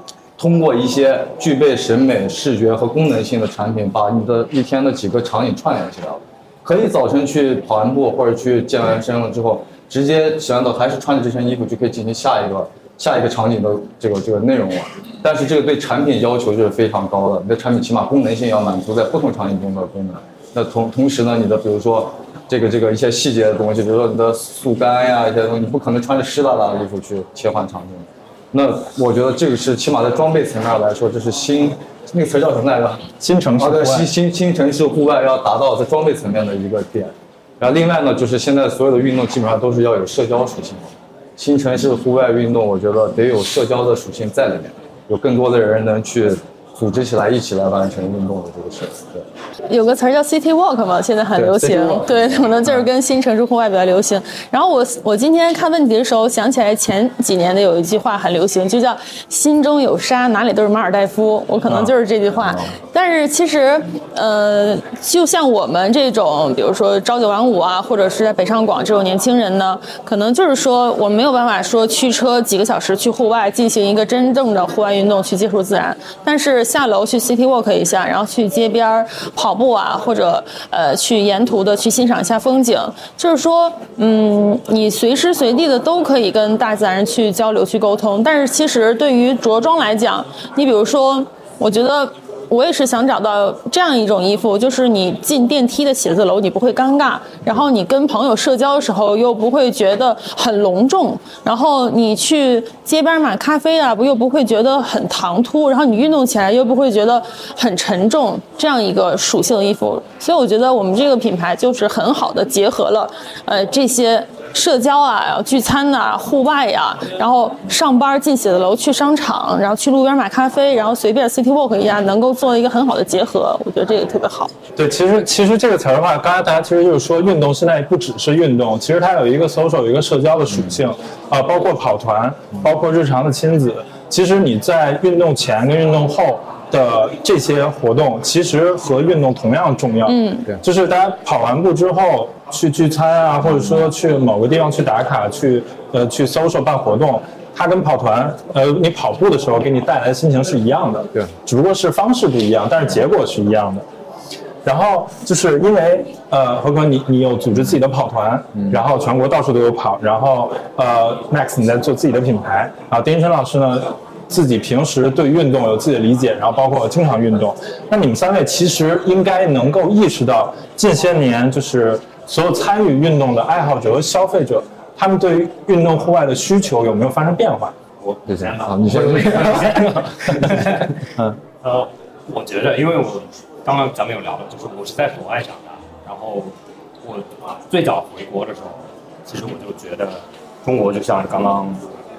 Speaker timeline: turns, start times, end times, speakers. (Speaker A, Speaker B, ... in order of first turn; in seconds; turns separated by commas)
Speaker A: 0.4-49.3, Speaker B: 33.2-34.1, Speaker C: 49.7-124.5, Speaker A: 51.4-52.2, Speaker B: 124.8-153.8, Speaker C: 140.1-140.5, Speaker B: 154.6-177.8, Speaker D: 178.0-181.1, Speaker A: 178.3-179.8, Speaker D: 181.6-191.8